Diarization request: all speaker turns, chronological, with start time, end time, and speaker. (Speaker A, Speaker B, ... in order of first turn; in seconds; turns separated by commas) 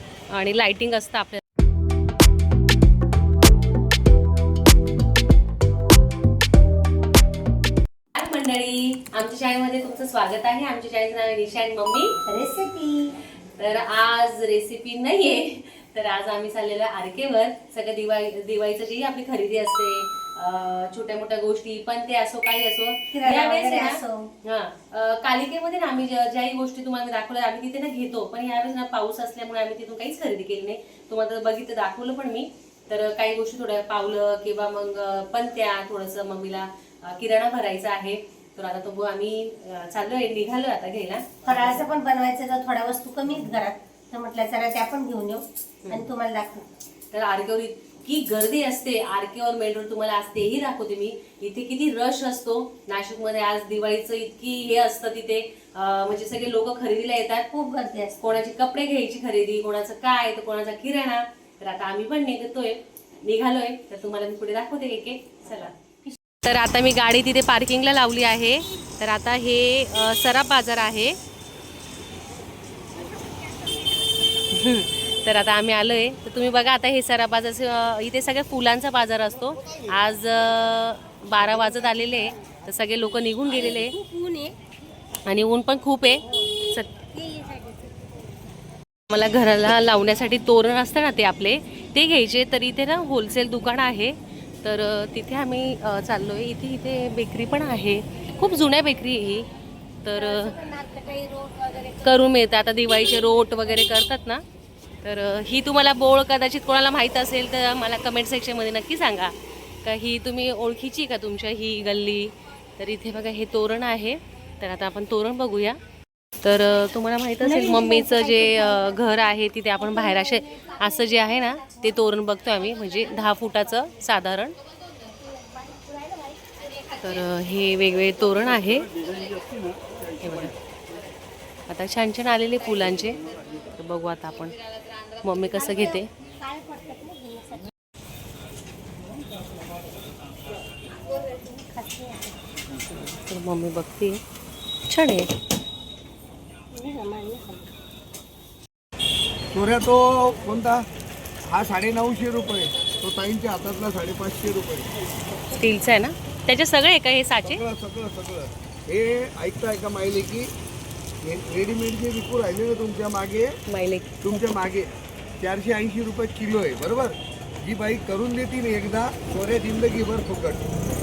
Speaker A: 0.3-1.4, Speaker A: 8.2-12.2, Speaker B: 12.3-13.2, Speaker A: 13.6-41.8, Speaker B: 23.1-24.3, Speaker B: 41.5-46.7, Speaker A: 47.1-57.5, Speaker B: 57.5-58.2, Speaker A: 58.2-65.8, Speaker A: 66.4-71.2, Speaker A: 74.5-84.0, Speaker B: 83.5-84.6, Speaker A: 85.3-87.0, Speaker B: 87.1-88.0, Speaker A: 89.1-99.5, Speaker A: 100.0-100.5, Speaker B: 100.1-102.1, Speaker A: 102.0-104.4, Speaker A: 105.0-115.8, Speaker A: 116.4-124.5, Speaker B: 117.4-122.0, Speaker B: 125.0-126.8, Speaker A: 127.0-128.9, Speaker A: 130.2-130.5, Speaker A: 131.7-134.6, Speaker A: 135.2-136.1, Speaker B: 135.6-137.7, Speaker B: 141.0-142.4, Speaker A: 142.9-144.2, Speaker A: 144.9-145.3, Speaker B: 146.7-147.7, Speaker C: 149.5-150.9, Speaker C: 151.4-154.9, Speaker A: 155.5-157.6, Speaker C: 157.4-160.5, Speaker C: 161.2-163.5, Speaker A: 163.7-164.3, Speaker C: 164.2-170.7